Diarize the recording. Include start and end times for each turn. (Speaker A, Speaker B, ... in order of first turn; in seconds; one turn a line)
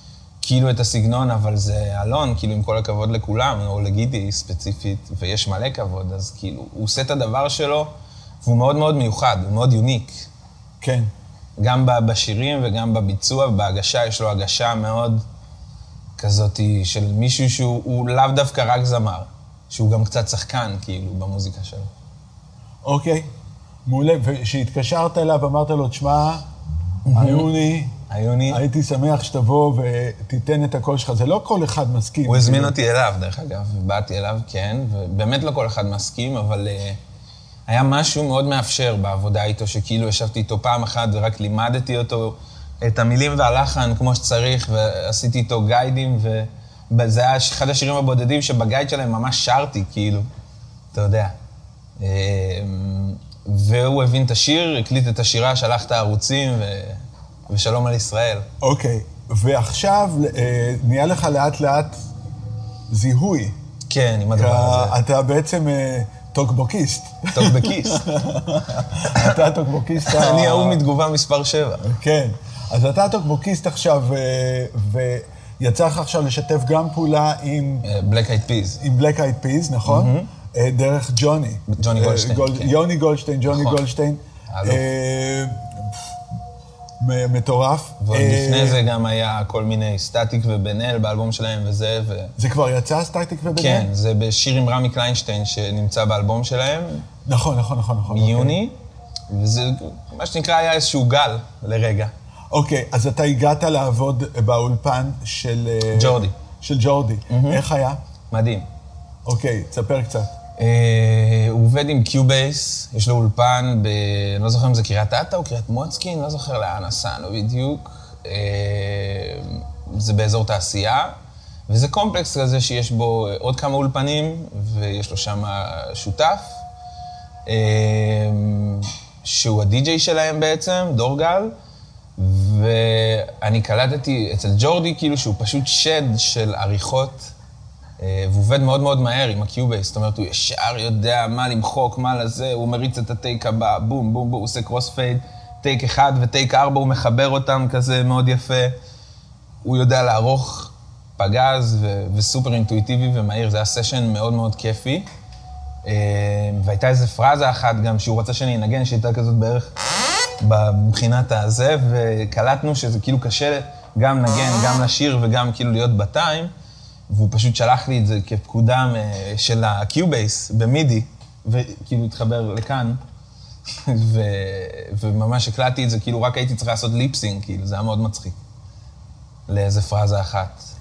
Speaker A: 0.4-10.3
Speaker B: 10.8-11.1
Speaker A: 11.6-15.2
Speaker A: 16.2-21.9
Speaker B: 22.8-23.3
Speaker B: 23.9-26.4
Speaker A: 27.1-27.5
Speaker B: 27.1-27.9
Speaker A: 28.1-28.6
Speaker B: 28.5-32.7
Speaker A: 32.2-37.0
Speaker A: 37.7-50.3
Speaker A: 50.9-51.4
Speaker A: 52.0-58.5
Speaker B: 58.6-62.0
Speaker B: 62.9-63.5
Speaker A: 63.9-65.0
Speaker B: 64.3-70.8
Speaker A: 67.3-68.0
Speaker A: 69.1-69.4
Speaker A: 70.0-71.8
Speaker B: 71.8-77.8
Speaker A: 77.8-78.8
Speaker B: 78.8-86.0
Speaker A: 79.8-80.3
Speaker A: 81.7-82.7
Speaker A: 83.5-83.8
Speaker A: 84.5-84.8
Speaker B: 87.0-88.8
Speaker A: 88.0-92.3
Speaker B: 92.4-93.9
Speaker A: 93.5-97.1
Speaker B: 97.2-98.6
Speaker A: 98.1-98.7
Speaker A: 99.3-102.1
Speaker B: 102.5-108.0
Speaker A: 105.9-106.3
Speaker A: 107.3-107.6
Speaker A: 108.3-108.7
Speaker B: 109.2-110.3
Speaker A: 110.6-121.2
Speaker A: 121.7-126.6
Speaker A: 127.5-131.5
Speaker A: 132.2-137.3
Speaker A: 138.0-148.8
Speaker A: 149.6-155.1
Speaker A: 155.8-159.7
Speaker A: 160.4-166.5
Speaker A: 167.1-173.0
Speaker A: 173.8-178.4
Speaker A: 179.5-180.7